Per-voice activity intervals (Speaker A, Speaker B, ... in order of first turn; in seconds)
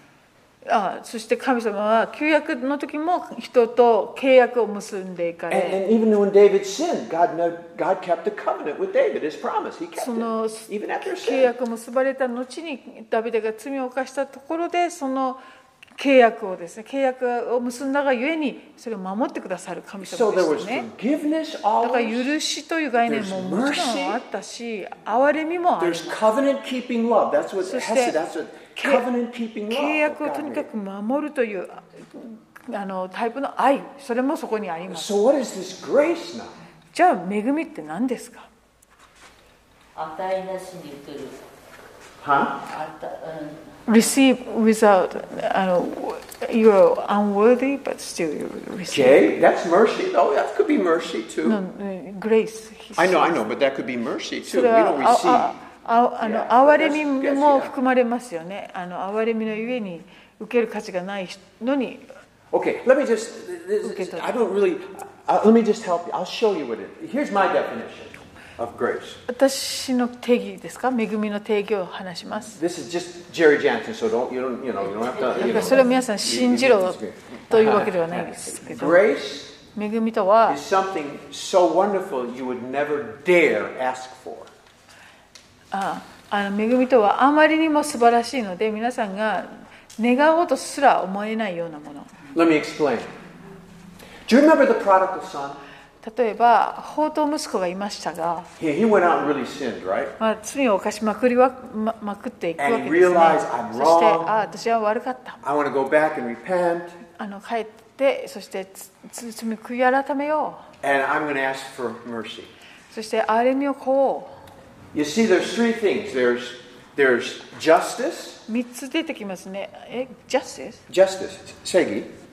Speaker A: 0.7-5.8, 10.0-15.4, 16.0-20.9, 21.8-26.2, 27.6-28.2, 28.8-29.1, 29.7-35.1, 36.9-38.5, 43.9-49.2, 51.5-53.4, 54.5-62.1, 63.8-64.4, 69.3-72.6, 75.3-77.0, 77.5-79.0, 79.7-80.6, 85.7-92.1, 96.0-98.5, 100.2-105.4, 107.2-110.7, 112.9-114.3, 118.5-120.8
Speaker B: 5.5-11.5, 20.0-22.3, 23.1-24.2, 25.8-30.7, 34.9-36.5, 42.2-42.6, 48.9-51.6, 53.0-55.5, 56.2-57.7, 62.5-69.2, 72.5-79.6, 80.5-84.5, 92.3-93.1, 94.3-95.6, 98.6-100.1, 102.6-104.3, 105.4-107.0, 110.8-112.5, 114.9-118.4, 120.9-122.1
Speaker C: 40.0-41.4, 42.6-43.8